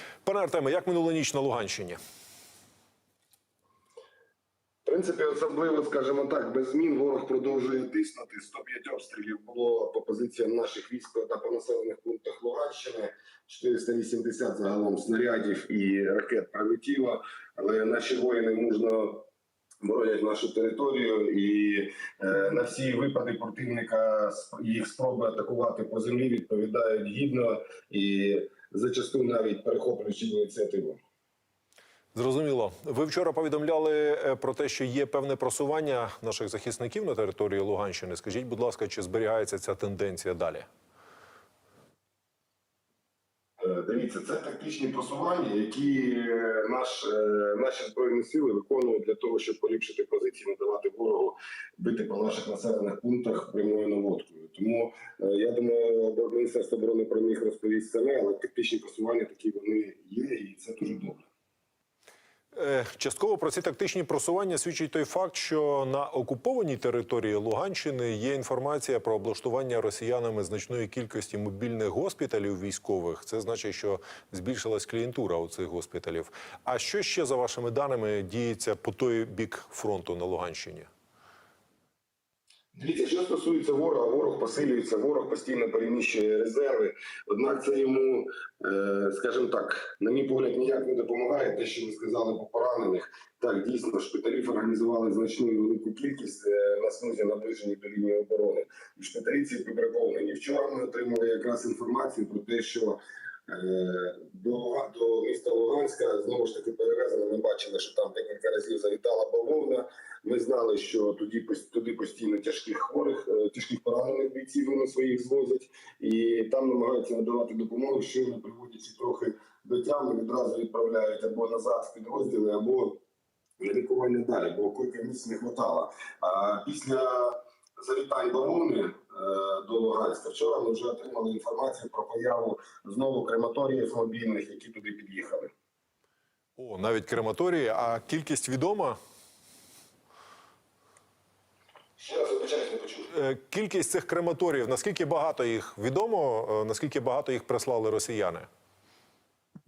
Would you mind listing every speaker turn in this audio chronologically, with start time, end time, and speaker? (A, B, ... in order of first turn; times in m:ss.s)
0:00.2-0:02.0 A
0:04.8-0:19.2 B
0:19.8-0:31.0 B
0:32.2-0:40.7 A
0:43.6-1:01.2 B
1:02.6-1:20.9 A
1:22.7-2:03.0 B
2:03.6-2:15.5 B
2:16.6-2:19.0 A
2:22.0-2:23.1 B
2:23.1-2:28.5 A